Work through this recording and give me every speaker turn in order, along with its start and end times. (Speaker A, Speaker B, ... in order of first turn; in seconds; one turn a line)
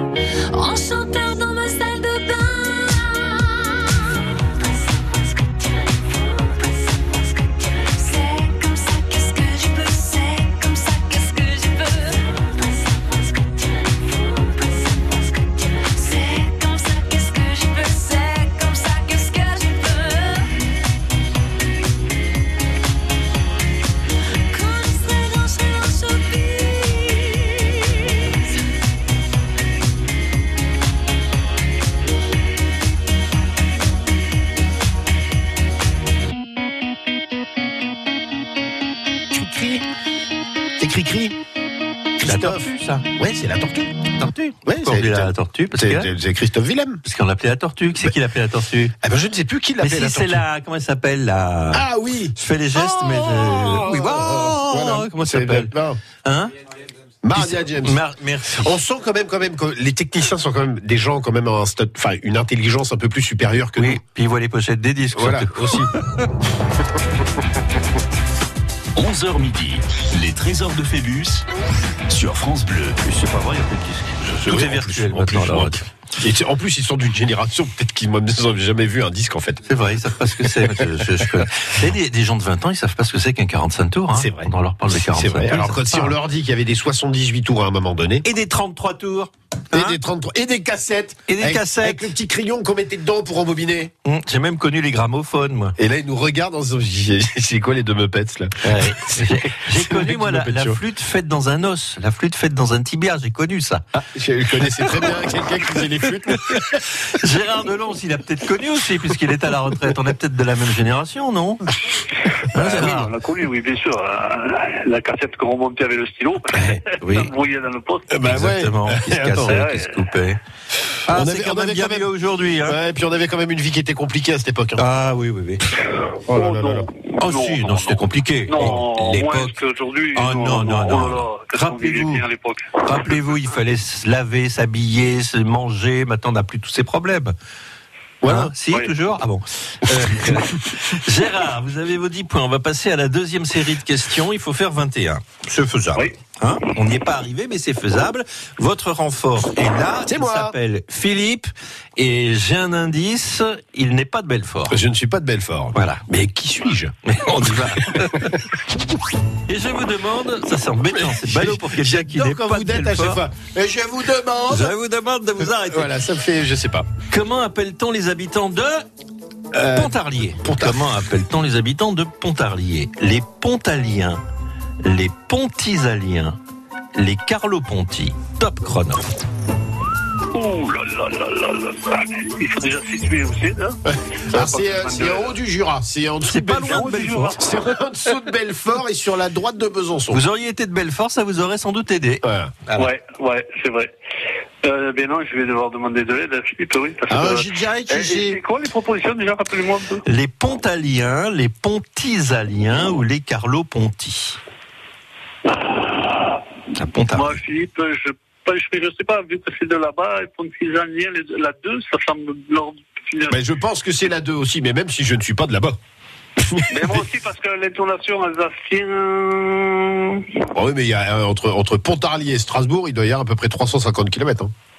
Speaker A: 0.5-20.5
Speaker A: 24.5-28.5
Speaker B: 39.3-39.8
Speaker B: 40.8-41.4
Speaker B: 42.2-44.0
Speaker C: 42.2-43.0
Speaker C: 44.1-46.1
Speaker B: 44.6-47.0
Speaker C: 47.0-48.9
Speaker B: 49.0-50.5
Speaker C: 49.8-51.8
Speaker B: 51.7-56.0
Speaker C: 52.4-56.5
Speaker B: 57.2-58.0
Speaker C: 57.3-58.7
Speaker B: 58.5-64.0
Speaker C: 63.8-65.8
Speaker B: 65.1-65.9
Speaker D: 69.0-71.5
Speaker D: 72.1-73.0
Speaker C: 73.0-75.8
Speaker B: 74.4-79.6
Speaker C: 79.7-86.1
Speaker B: 80.4-80.9
Speaker B: 84.1-88.2
Speaker C: 88.2-90.0
Speaker B: 89.7-93.9
Speaker C: 91.3-92.1
Speaker C: 94.0-95.8
Speaker B: 95.8-100.8
Speaker C: 98.6-103.8
Speaker B: 104.1-106.8
Speaker C: 106.3-111.6
Speaker C: 112.5-113.1
Speaker E: 112.5-118.1
Speaker C: 117.0-117.3
Speaker B: 118.1-119.6
Speaker C: 118.2-120.4
Speaker E: 119.5-120.1
Speaker C: 121.1-122.8
Speaker B: 121.1-122.1
Speaker B: 122.6-124.8
Speaker C: 124.8-125.6
Speaker B: 126.3-126.9
Speaker E: 126.3-133.1
Speaker C: 127.2-129.6
Speaker C: 130.1-132.2
Speaker C: 132.8-137.3
Speaker B: 138.2-138.5
Speaker C: 138.2-154.8
Speaker B: 150.1-150.5
Speaker B: 154.7-158.3
Speaker C: 155.7-156.0
Speaker C: 157.1-158.4
Speaker C: 159.5-163.2
Speaker B: 161.0-164.7
Speaker C: 164.5-165.9
Speaker B: 165.4-166.9
Speaker C: 167.1-168.8
Speaker B: 169.5-171.0
Speaker C: 169.7-174.2
Speaker C: 174.8-176.4
Speaker C: 176.9-179.0
Speaker E: 180.3-185.3
Speaker B: 184.3-190.2
Speaker C: 186.2-187.4
Speaker E: 186.7-187.3
Speaker C: 190.1-192.9
Speaker B: 192.2-192.5
Speaker E: 192.8-193.9
Speaker E: 194.6-200.0
Speaker B: 197.1-198.4
Speaker C: 200.1-204.4
Speaker E: 205.5-206.4
Speaker C: 206.8-207.4
Speaker E: 207.1-213.4
Speaker B: 213.3-215.8
Speaker B: 216.4-217.0
Speaker E: 216.7-220.2
Speaker B: 220.5-224.5